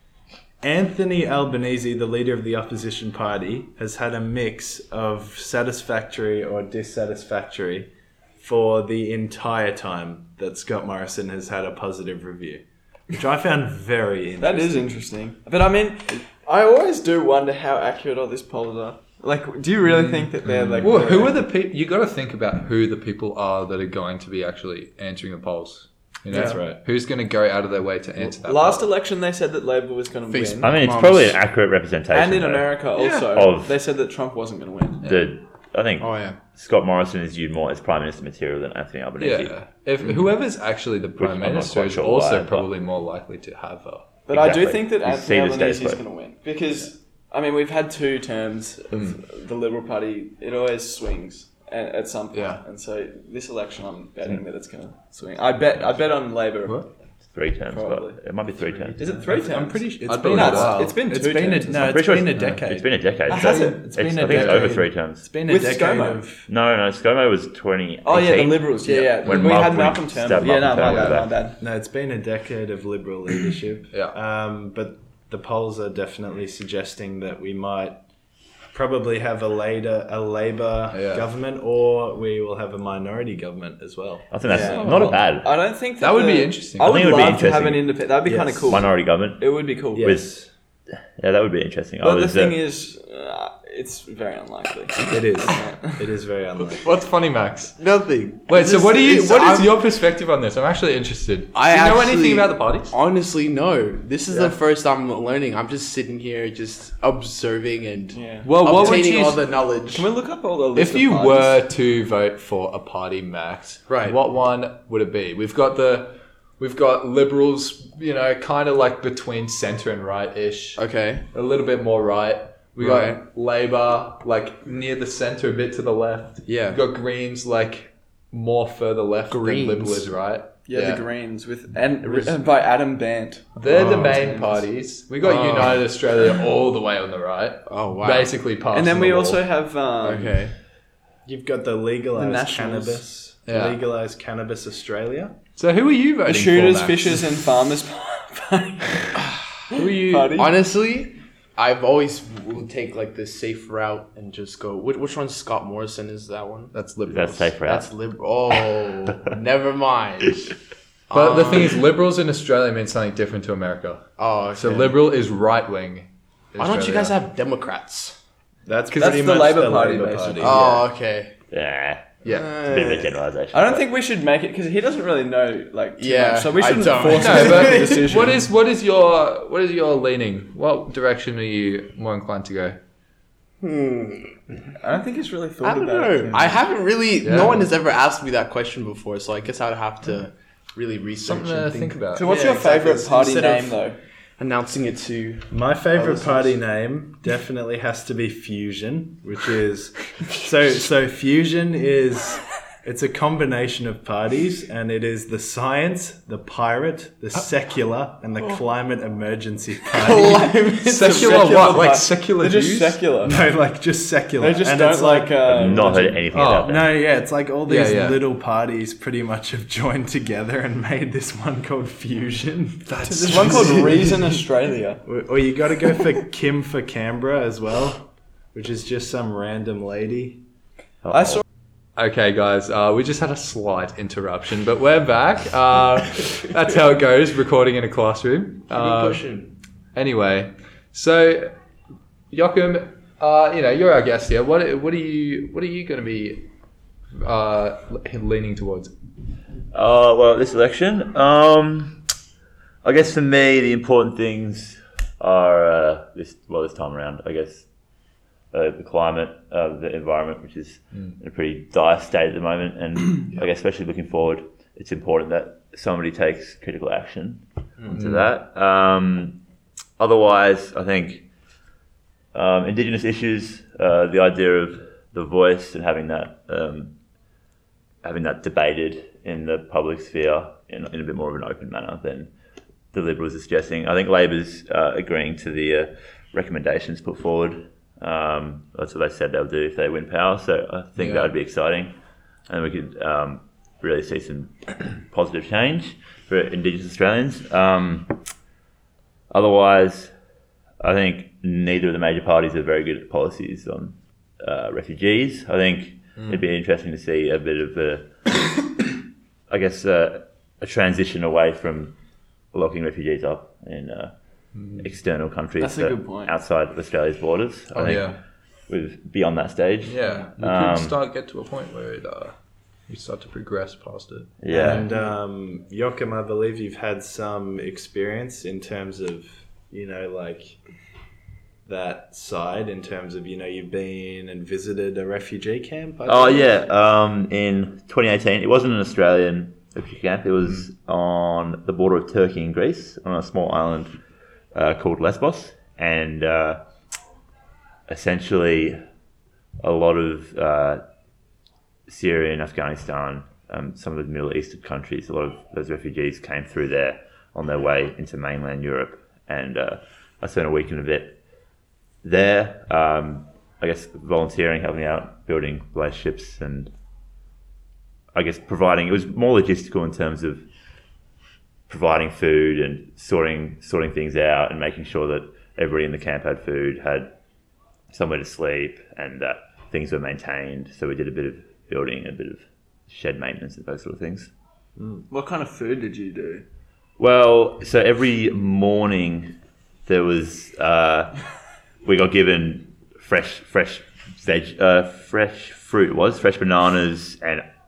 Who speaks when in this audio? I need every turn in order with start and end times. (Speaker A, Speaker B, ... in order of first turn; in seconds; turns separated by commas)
Speaker A: 0.6-14.9, Speaker B: 14.4-21.5, Speaker C: 19.9-28.9, Speaker A: 26.3-26.8, Speaker B: 28.2-30.7, Speaker D: 30.3-31.4, Speaker E: 30.6-33.7, Speaker B: 32.1-35.1, Speaker C: 33.0-33.2, Speaker E: 35.0-40.2, Speaker D: 36.0-36.4, Speaker C: 39.2-44.1, Speaker E: 41.2-42.7, Speaker B: 44.3-56.9, Speaker E: 44.3-46.0, Speaker C: 48.9-49.2, Speaker C: 52.3-52.6, Speaker E: 57.3-59.0, Speaker B: 57.7-58.2, Speaker A: 58.8-66.5, Speaker B: 59.0-61.8, Speaker C: 60.0-60.9, Speaker E: 61.7-65.3, Speaker B: 63.3-63.9, Speaker B: 65.5-66.2, Speaker E: 66.5-71.4, Speaker B: 68.0-71.6, Speaker C: 68.9-69.7, Speaker C: 70.8-71.2, Speaker A: 71.6-78.0, Speaker A: 78.7-85.1, Speaker C: 80.9-81.3, Speaker E: 84.3-85.5, Speaker B: 84.4-90.2, Speaker C: 84.7-85.2, Speaker C: 86.0-87.0, Speaker E: 86.8-88.0, Speaker A: 88.2-88.8, Speaker E: 88.7-90.3, Speaker A: 89.9-90.5, Speaker E: 91.2-92.6, Speaker B: 92.0-96.0, Speaker A: 95.1-97.0, Speaker C: 96.6-97.8, Speaker D: 97.8-99.8, Speaker C: 98.5-102.9, Speaker D: 101.5-110.1, Speaker B: 108.1-109.0, Speaker C: 108.4-109.4, Speaker B: 109.9-111.6, Speaker C: 110.7-131.0, Speaker D: 113.9-114.2, Speaker D: 120.8-121.2, Speaker D: 122.8-123.2, Speaker D: 126.5-126.8, Speaker D: 129.3-130.1, Speaker B: 130.7-134.7, Speaker C: 133.6-139.4, Speaker D: 135.2-135.9, Speaker D: 137.7-138.3, Speaker B: 138.7-140.4, Speaker D: 140.0-140.6, Speaker A: 141.2-145.3, Speaker B: 142.1-143.0, Speaker C: 143.5-143.8, Speaker C: 145.6-147.3, Speaker B: 146.2-150.6, Speaker C: 149.7-150.5, Speaker D: 150.3-156.7, Speaker C: 156.7-157.6, Speaker E: 157.1-157.9, Speaker D: 157.6-160.5, Speaker D: 161.1-161.8, Speaker C: 161.1-167.2, Speaker D: 164.2-165.0, Speaker D: 166.6-168.2, Speaker A: 168.7-170.7, Speaker B: 168.9-170.8, Speaker D: 170.4-171.3, Speaker E: 171.5-173.8, Speaker C: 172.2-172.5, Speaker D: 172.3-173.1, Speaker B: 173.5-178.4, Speaker D: 176.0-178.3, Speaker C: 177.0-182.8, Speaker D: 183.6-184.7, Speaker B: 184.8-186.7, Speaker D: 185.6-193.8, Speaker C: 187.2-187.7, Speaker C: 191.2-192.3, Speaker B: 192.1-194.0, Speaker D: 194.4-196.5, Speaker A: 195.5-210.5, Speaker D: 210.0-212.0, Speaker B: 210.2-213.4, Speaker C: 210.8-213.0, Speaker A: 213.2-223.7, Speaker B: 214.4-216.2, Speaker E: 215.4-216.9, Speaker C: 216.3-216.8, Speaker C: 217.7-218.3, Speaker C: 222.9-224.3, Speaker B: 223.1-225.0, Speaker A: 225.1-230.4, Speaker E: 231.0-231.4, Speaker C: 231.9-239.3, Speaker D: 238.7-239.6, Speaker C: 239.9-241.5, Speaker C: 242.3-246.5, Speaker C: 247.2-248.9, Speaker E: 249.7-252.0, Speaker E: 252.8-257.6, Speaker E: 258.5-269.4, Speaker C: 267.9-268.3, Speaker E: 270.0-271.3, Speaker E: 272.3-276.9, Speaker E: 278.0-282.3, Speaker E: 282.9-291.9, Speaker C: 291.0-291.3, Speaker E: 292.5-298.2, Speaker E: 299.3-300.1, Speaker E: 300.8-308.1, Speaker E: 309.5-311.9, Speaker E: 312.5-314.1, Speaker C: 314.5-314.9, Speaker E: 314.8-318.1, Speaker B: 315.6-316.3, Speaker C: 317.7-318.2, Speaker E: 318.7-321.0, Speaker C: 319.8-322.4, Speaker C: 322.9-324.8, Speaker E: 324.4-324.9, Speaker A: 324.5-330.6, Speaker A: 331.6-336.5, Speaker E: 336.1-343.9, Speaker E: 344.5-346.6, Speaker E: 347.9-348.8, Speaker E: 349.6-350.8, Speaker E: 351.9-361.2, Speaker E: 362.0-366.7, Speaker E: 368.1-370.4, Speaker E: 371.7-377.1, Speaker E: 377.9-384.3, Speaker A: 384.8-385.0, Speaker B: 385.1-386.4, Speaker E: 387.0-391.2, Speaker E: 391.8-397.4